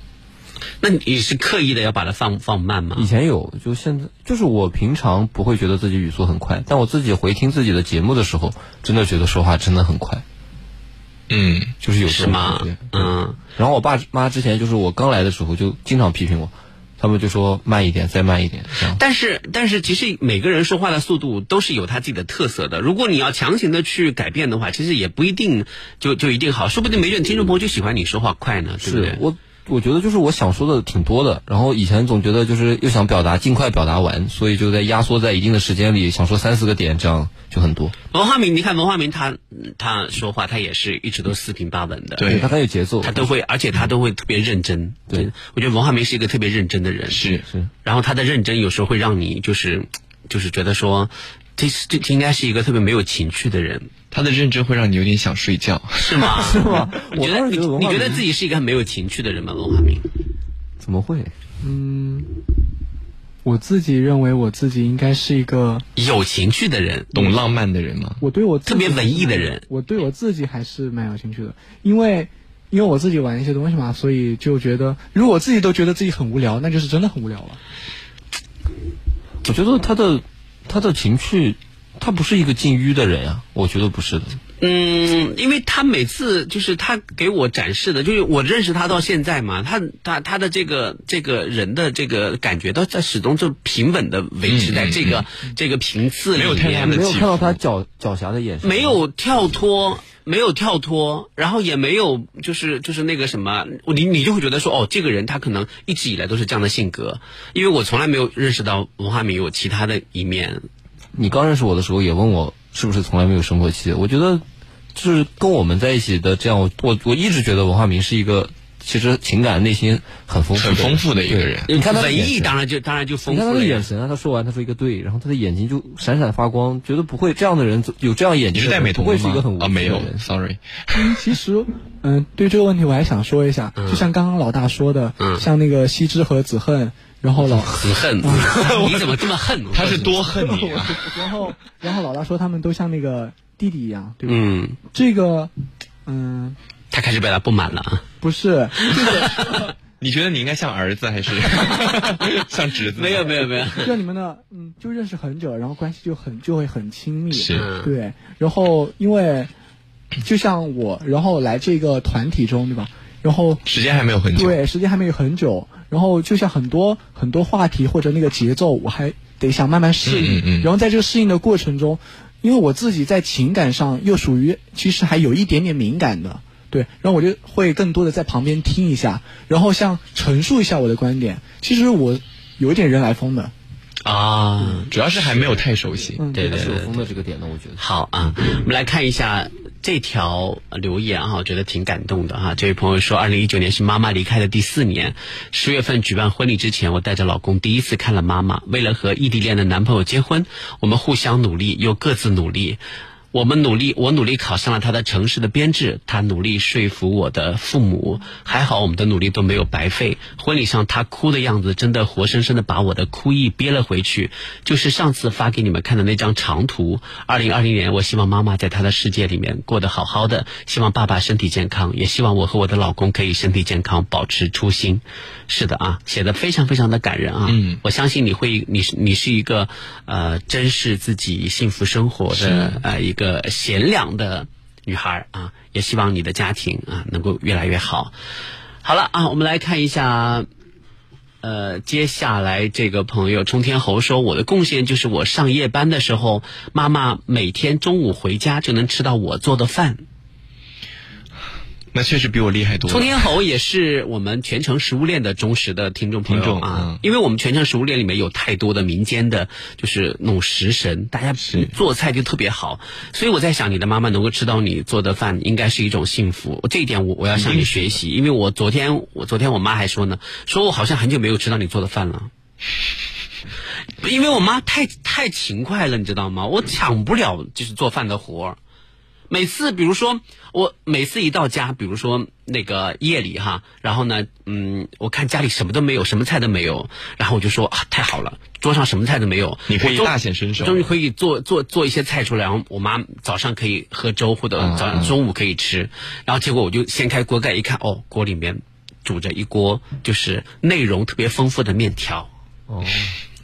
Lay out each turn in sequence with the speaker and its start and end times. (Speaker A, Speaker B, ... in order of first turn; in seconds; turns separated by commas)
Speaker A: 0.8-3.1, Speaker B: 3.0-10.2, Speaker C: 11.3-11.8, Speaker B: 11.8-19.0, Speaker A: 12.1-13.4, Speaker A: 18.9-29.2, Speaker B: 28.8-38.0, Speaker A: 38.1-42.3, Speaker C: 42.2-42.5, Speaker B: 42.2-43.3, Speaker A: 43.0-47.2, Speaker C: 47.1-47.5, Speaker A: 47.9-53.9, Speaker C: 54.1-56.6, Speaker A: 56.0-60.1, Speaker B: 56.3-58.2, Speaker B: 60.8-61.3, Speaker D: 61.6-62.3, Speaker D: 63.5-65.8, Speaker A: 66.0-67.1, Speaker C: 67.1-68.2, Speaker D: 68.2-77.6, Speaker A: 68.7-69.6, Speaker B: 79.4-84.4, Speaker A: 84.6-97.0, Speaker C: 94.4-95.2, Speaker C: 96.3-97.6, Speaker B: 96.7-99.0, Speaker A: 98.6-110.6, Speaker B: 111.2-114.4, Speaker B: 115.0-122.5, Speaker C: 120.5-121.7, Speaker A: 121.7-123.9, Speaker B: 123.3-130.2, Speaker C: 128.5-131.1, Speaker D: 130.9-139.1, Speaker A: 133.8-134.1, Speaker A: 135.2-135.5, Speaker A: 137.7-140.2, Speaker C: 139.7-141.1, Speaker D: 140.3-145.5, Speaker A: 144.3-144.8, Speaker D: 146.1-146.6, Speaker A: 146.9-148.0, Speaker D: 148.2-149.7, Speaker A: 148.8-149.6, Speaker C: 150.0-153.9, Speaker A: 153.0-153.9, Speaker D: 153.8-159.5, Speaker C: 157.3-157.7, Speaker A: 157.5-157.9, Speaker D: 160.2-163.6, Speaker C: 163.7-164.6, Speaker D: 164.3-183.5, Speaker C: 170.0-170.7, Speaker A: 184.0-185.6, Speaker C: 184.9-186.2, Speaker D: 186.2-186.5, Speaker A: 186.3-187.0, Speaker B: 186.4-187.8, Speaker A: 187.8-202.8, Speaker A: 203.3-238.1, Speaker C: 227.5-227.8, Speaker C: 232.3-232.8, Speaker A: 238.8-240.5, Speaker A: 241.4-250.0, Speaker C: 251.9-253.3, Speaker A: 252.9-272.3, Speaker C: 256.3-257.0, Speaker C: 261.4-261.7, Speaker C: 267.4-267.7, Speaker A: 274.0-278.6, Speaker A: 279.3-302.3, Speaker C: 289.7-290.9, Speaker C: 294.6-295.1, Speaker B: 302.7-303.2